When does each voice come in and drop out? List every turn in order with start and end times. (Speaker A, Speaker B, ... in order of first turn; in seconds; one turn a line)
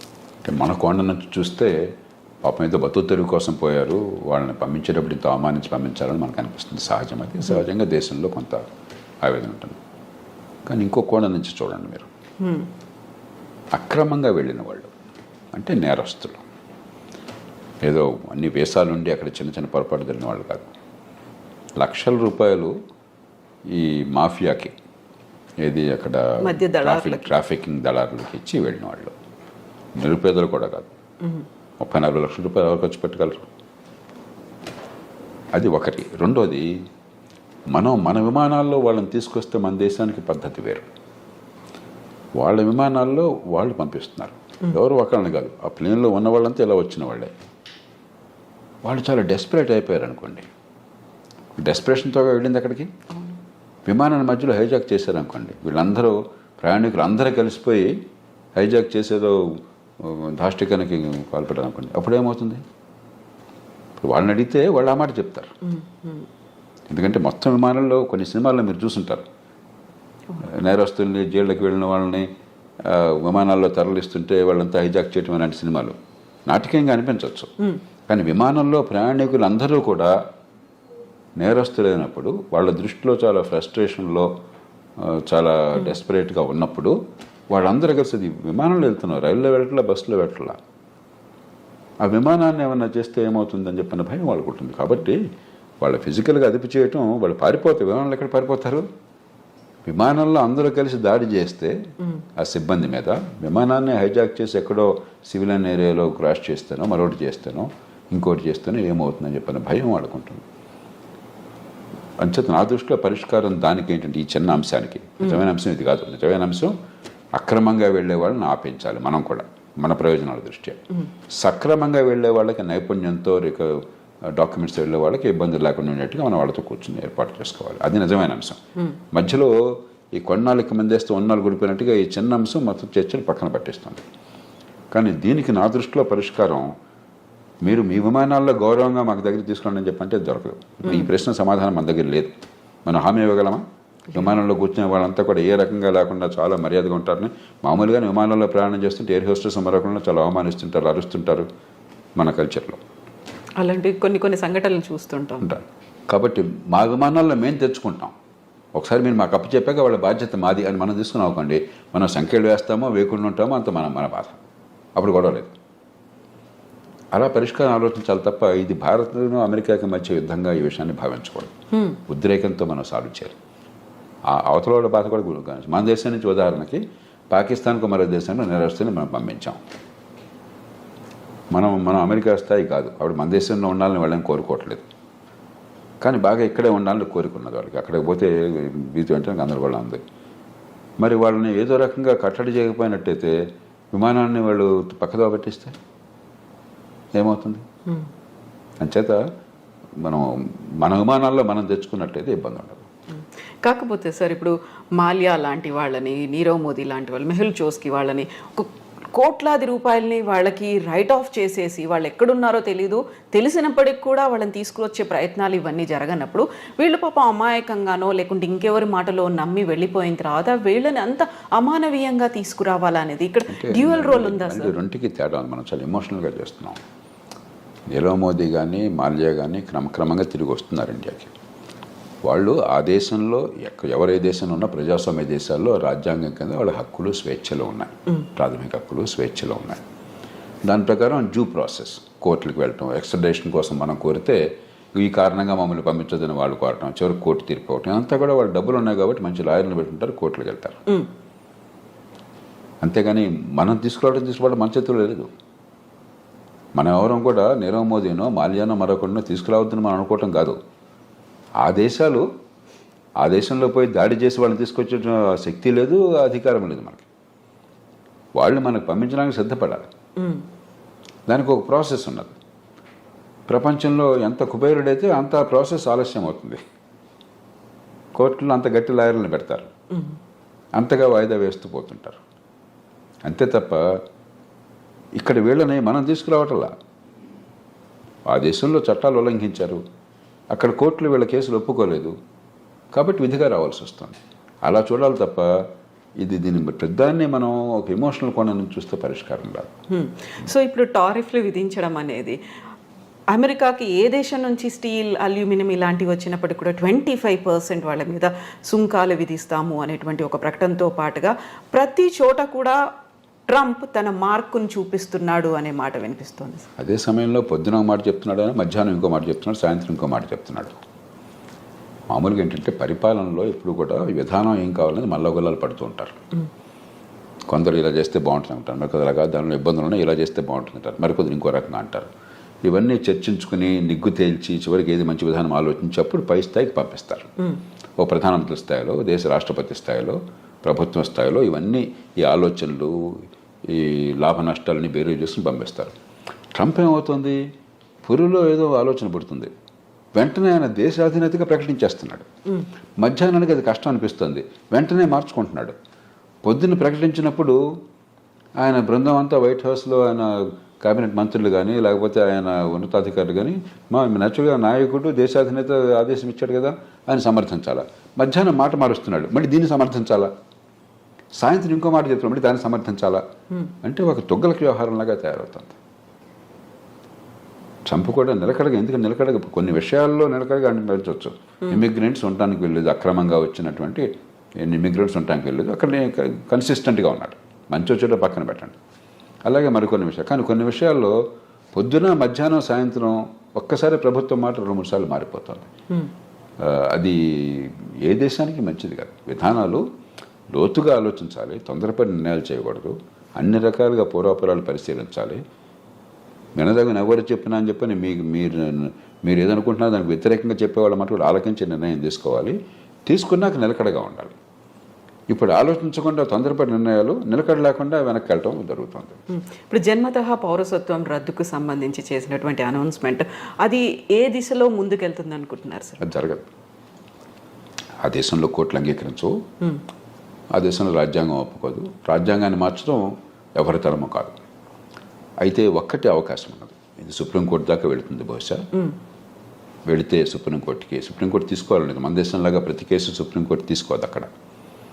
Speaker A: 0.4-1.7
Speaker A: 2.4-8.6
Speaker A: 9.2-9.8
Speaker A: 10.7-12.1
Speaker B: 12.4-12.7
Speaker A: 13.7-14.9
Speaker A: 15.5-16.4
Speaker A: 17.8-20.7
Speaker A: 21.8-22.7
Speaker A: 23.7-24.7
Speaker A: 25.6-29.1
Speaker B: 26.4-27.3
Speaker A: 30.0-30.9
Speaker A: 31.8-33.5
Speaker A: 35.5-36.7
Speaker A: 37.7-40.9
Speaker A: 42.4-47.3
Speaker A: 48.8-50.5
Speaker A: 51.6-52.9
Speaker A: 53.9-57.9
Speaker A: 58.5-62.6
Speaker A: 64.0-65.5
Speaker B: 65.7-66.2
Speaker A: 66.9-69.2
Speaker A: 70.4-72.3
Speaker A: 72.8-76.0
Speaker A: 76.5-77.5
Speaker A: 78.1-80.1
Speaker A: 81.4-84.3
Speaker A: 85.0-86.9
Speaker A: 87.5-90.6
Speaker A: 92.0-95.2
Speaker A: 95.8-98.8
Speaker A: 99.8-101.8
Speaker A: 102.4-110.4
Speaker A: 112.2-116.7
Speaker A: 117.3-120.8
Speaker A: 121.3-128.6
Speaker A: 129.1-134.0
Speaker A: 134.9-136.7
Speaker A: 137.6-142.3
Speaker A: 142.8-151.5
Speaker A: 152.2-152.8
Speaker B: 153.6-155.6
Speaker A: 155.4-158.1
Speaker A: 158.7-164.4
Speaker A: 164.9-165.6
Speaker A: 167.1-171.6
Speaker A: 172.1-173.3
Speaker A: 174.3-179.6
Speaker A: 181.5-184.8
Speaker A: 186.0-190.0
Speaker A: 191.0-193.3
Speaker A: 193.9-195.8
Speaker A: 197.1-197.7
Speaker A: 198.8-199.2
Speaker A: 200.0-202.8
Speaker B: 203.6-224.7
Speaker A: 223.5-226.8
Speaker A: 227.9-231.3
Speaker A: 232.2-239.8
Speaker A: 240.6-244.4
Speaker A: 244.9-250.8
Speaker A: 252.8-255.3
Speaker A: 256.8-260.6
Speaker A: 261.6-262.2
Speaker A: 263.2-267.1
Speaker A: 268.4-269.9
Speaker B: 270.2-270.4
Speaker A: 271.3-272.4
Speaker A: 273.5-276.6
Speaker A: 278.2-279.7
Speaker A: 280.8-282.2
Speaker A: 283.2-283.8
Speaker A: 285.2-286.7
Speaker A: 288.3-289.8
Speaker A: 290.5-292.1
Speaker A: 292.9-295.5
Speaker A: 296.2-299.7
Speaker B: 299.9-302.4
Speaker B: 303.3-312.8
Speaker B: 313.5-316.6
Speaker A: 316.8-320.8
Speaker A: 322.1-326.2
Speaker A: 327.5-332.1
Speaker A: 332.6-337.3
Speaker A: 338.0-345.9
Speaker A: 346.6-347.4
Speaker A: 348.0-349.5
Speaker A: 350.2-352.3
Speaker A: 353.0-355.8
Speaker A: 356.4-357.6
Speaker A: 358.6-370.3
Speaker A: 371.4-373.2
Speaker A: 373.8-375.8
Speaker A: 377.9-384.1
Speaker A: 384.6-388.8
Speaker A: 389.4-391.1
Speaker A: 391.7-395.7
Speaker A: 396.6-399.8
Speaker A: 400.5-405.4
Speaker A: 406.6-414.4
Speaker A: 415.3-419.2
Speaker B: 419.3-426.0
Speaker A: 426.0-426.5
Speaker A: 428.0-429.4
Speaker A: 430.6-434.4
Speaker A: 435.4-438.6
Speaker A: 439.9-444.3